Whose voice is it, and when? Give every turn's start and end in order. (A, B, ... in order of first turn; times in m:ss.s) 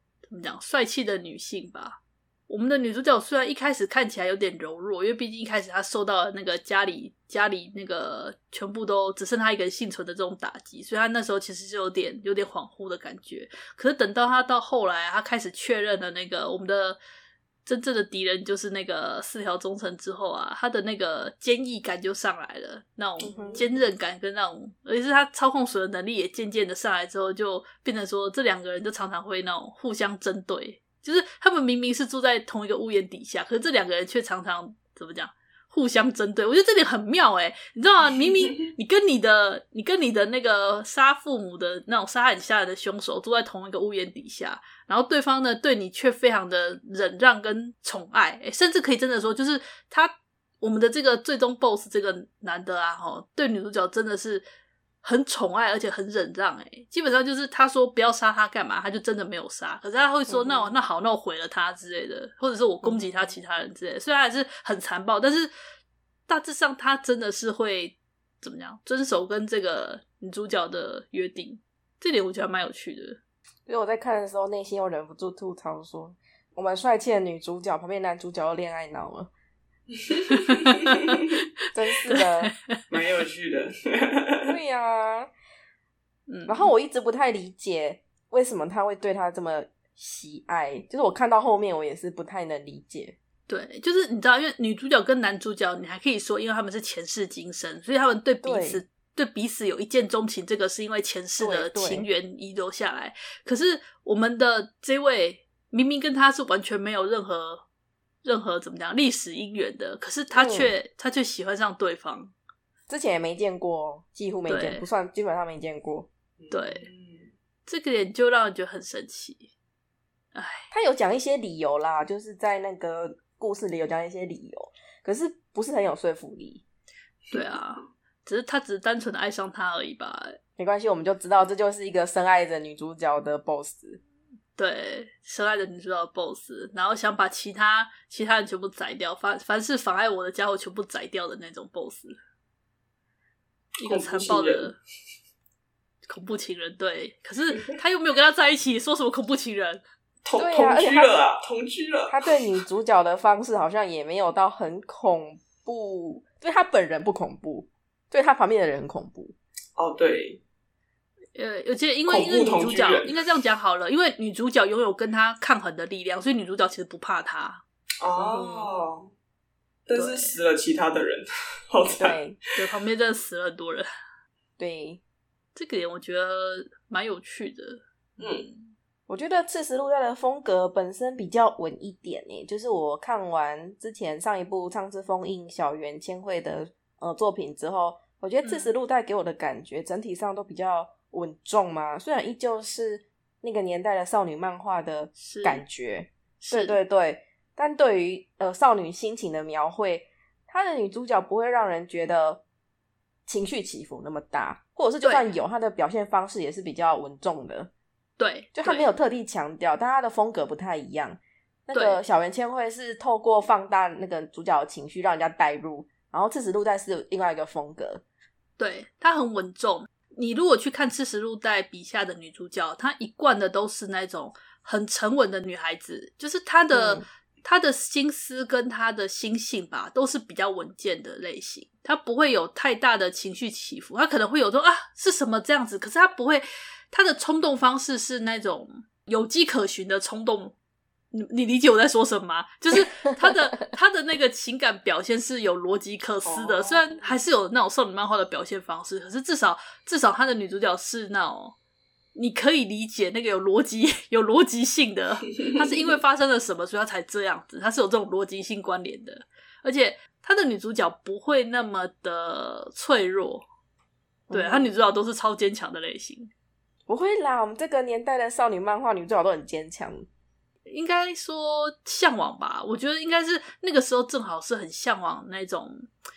0:00.3-0:17.0 A
0:17.6-0:54.4 A
0:23.2-0:23.7 B
0:23.2-0:23.6 C
0:55.0-1:05.5 A
1:00.3-1:00.8 B
1:06.3-1:13.2 A
1:13.7-1:19.3 B
1:20.1-1:20.4 C
1:20.7-1:20.9 A
1:21.7-1:22.5 B
1:22.1-1:22.8 A
1:22.9-1:24.5 C
1:24.4-1:25.3 B
1:26.3-1:26.7 A
1:26.5-1:33.2 B
1:33.5-1:47.6 A
1:38.4-1:38.8 B
1:41.4-1:42.1 B
1:48.2-1:52.3 A
1:50.3-1:50.7 B
1:52.9-1:56.1 B
1:54.5-1:54.9 A
1:56.4-1:57.3 C
1:56.5-1:56.9 A
1:57.7-1:59.5 A
2:00.4-2:00.7 A
2:00.7-2:06.6 B
2:07.3-2:10.4 A
2:10.6-2:14.0 B
2:14.6-2:22.2 A
2:23.8-2:24.8 A
2:23.8-2:24.8 C
2:26.0-2:29.8 A
2:30.2-2:32.2 C
2:30.4-2:31.2 B
2:32.1-2:39.4 B
2:39.8-2:40.4 C
2:41.4-2:47.6 A
2:42.1-2:43.1 C
2:48.0-2:49.1 C
2:48.2-2:48.7 B
2:49.9-2:52.2 C
2:49.9-2:50.4 A
2:51.9-2:52.4 B
2:52.6-2:53.9 A
2:54.6-2:55.0 B
2:55.6-2:58.7 A
2:58.2-2:58.4 C
2:59.1-3:22.4 B
3:08.4-3:08.7 A
3:15.2-3:15.6 A
3:16.4-3:16.8 A
3:23.3-3:27.7 B
3:25.0-3:25.3 A
3:28.2-3:28.9 A
3:28.5-3:38.0 B
3:31.7-3:32.0 A
3:38.6-4:00.6 A
3:46.7-3:47.0 B
4:01.1-4:11.6 A
4:06.2-4:07.2 C
4:12.2-4:23.4 A
4:24.3-4:24.7 B
4:24.3-4:26.3 A
4:26.9-4:30.0 B
4:30.7-4:35.9 A